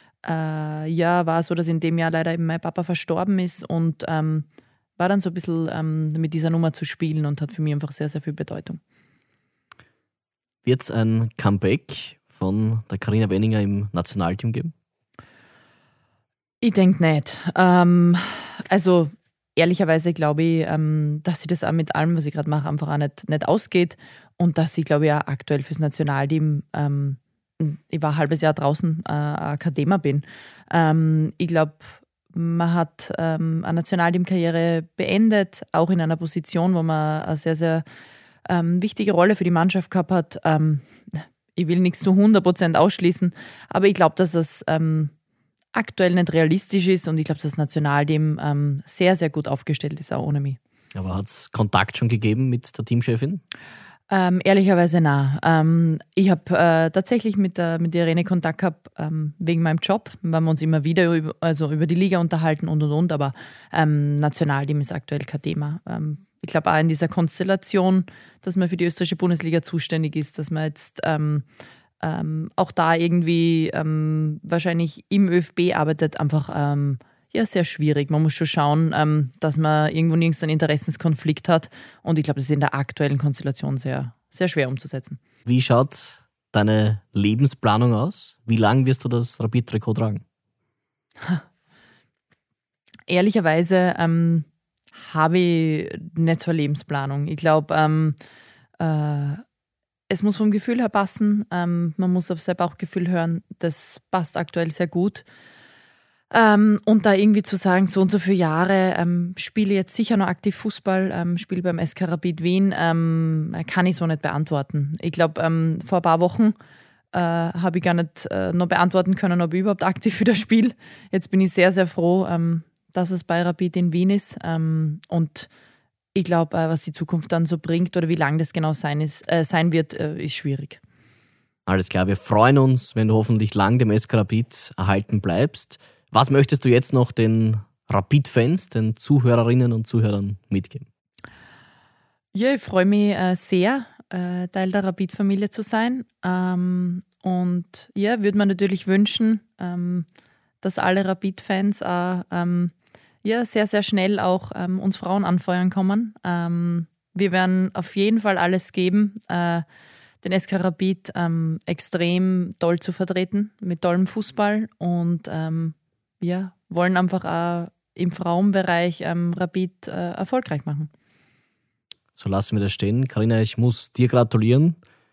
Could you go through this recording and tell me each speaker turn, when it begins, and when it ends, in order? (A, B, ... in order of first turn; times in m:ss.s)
0:00.2-0:04.4 A
0:05.0-0:08.8 A
0:10.6-0:14.7 B
0:16.6-0:37.8 A
0:38.4-0:45.1 A
0:45.7-0:50.6 A
0:50.9-0:53.4 B
0:54.1-1:11.4 A
1:12.0-1:25.2 A
1:25.4-1:30.2 B
1:33.1-1:38.2 A
1:38.8-1:39.4 A
1:40.1-1:45.2 A
1:46.3-1:56.6 A
1:57.1-2:05.5 A
2:06.1-2:10.8 A
2:11.7-2:20.8 B
2:22.3-2:30.0 A
2:30.6-2:39.6 A
2:40.2-2:50.9 A
2:52.2-2:54.8 B